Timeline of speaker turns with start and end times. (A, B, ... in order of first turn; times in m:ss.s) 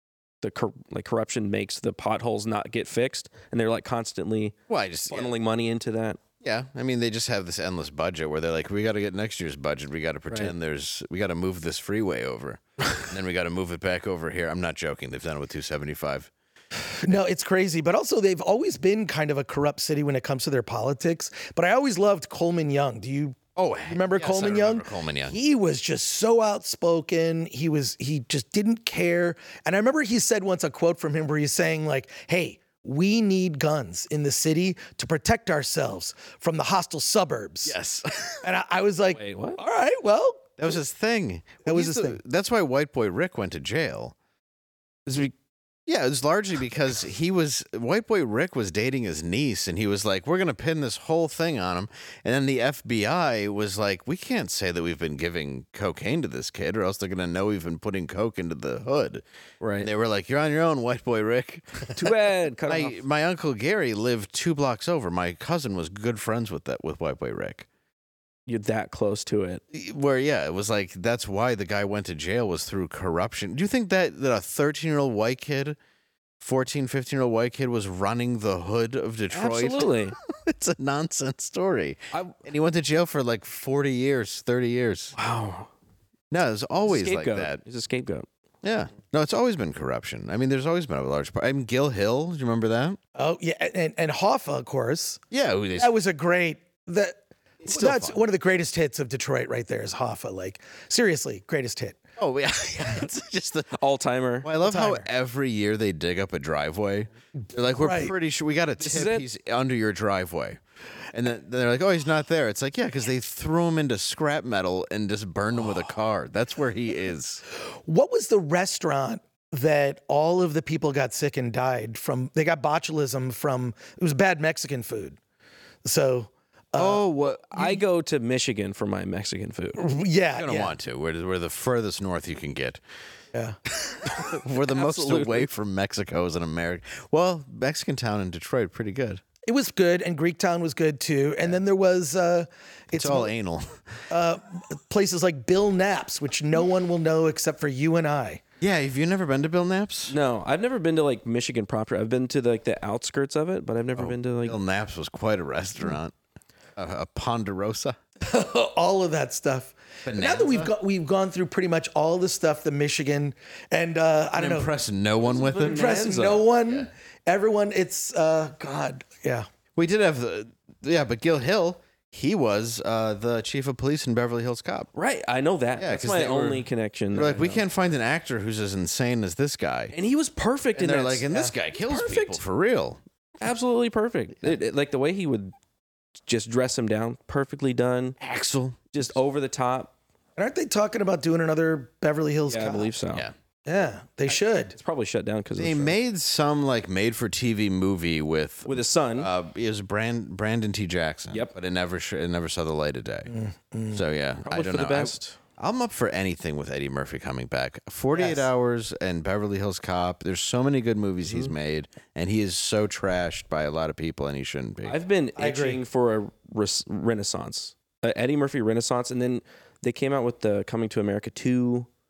0:00.4-0:04.5 A
0:04.7-0:05.3 B
0:05.1-0:06.2 A
0:06.4-0:16.3 B
0:17.0-0:37.7 C
0:23.6-0:25.4 B
0:37.6-0:38.4 B
0:38.4-0:40.8 C
0:39.1-0:39.6 A
0:40.6-0:44.1 B
0:41.6-0:42.2 C
0:45.0-0:45.3 A
0:45.9-0:59.2 B
0:59.6-0:59.9 A
0:59.8-1:02.0 B
1:02.0-1:03.0 A
1:02.6-1:07.7 B
1:08.5-1:09.6 A
1:09.7-1:15.8 B
1:16.4-1:25.2 B
1:19.3-1:20.2 A
1:25.2-1:25.7 A
1:26.3-1:27.6 B
1:26.8-1:28.3 A
1:28.6-1:33.0 B
1:33.2-1:35.2 C
1:35.3-1:35.9 B
1:35.8-1:42.0 C
1:37.6-1:38.2 B
1:42.2-1:43.7 B
1:43.7-1:44.5 A
1:44.4-1:50.6 B
1:44.6-1:45.1 C
1:47.8-1:48.1 C
1:48.8-1:49.2 A
1:51.1-1:57.4 B
1:57.8-2:05.2 C
2:05.8-2:07.0 C
2:06.8-2:07.8 B
2:07.4-2:09.8 A
2:09.8-2:10.7 C
2:10.3-2:12.8 B
2:13.8-2:19.2 B
2:14.1-2:15.5 A
2:19.4-2:23.3 C
2:22.9-2:23.8 B
2:24.1-2:28.4 C
2:28.6-2:30.2 B
2:30.1-2:34.6 A
2:33.9-2:36.1 B
2:36.8-2:38.0 B
2:38.2-2:44.7 C
2:40.0-2:40.7 B
2:44.3-2:46.0 B
2:45.3-2:46.4 A
2:45.6-2:49.5 C
2:49.8-2:54.9 B
2:54.9-2:57.6 A
2:55.8-2:59.9 B
2:59.9-3:02.4 A
3:00.7-3:03.0 B
3:03.4-3:05.5 A
3:06.3-3:08.2 A
3:08.2-3:09.1 B
3:08.9-3:09.9 A
3:10.4-3:12.9 C
3:12.5-3:13.3 A
3:13.6-3:14.7 C
3:14.7-3:16.0 A
3:15.6-3:23.3 B
3:18.6-3:19.3 A
3:23.3-3:24.0 C
3:23.9-3:35.0 B
3:24.4-3:25.4 A
3:28.1-3:28.4 C
3:34.8-3:41.9 A
3:35.4-3:35.8 C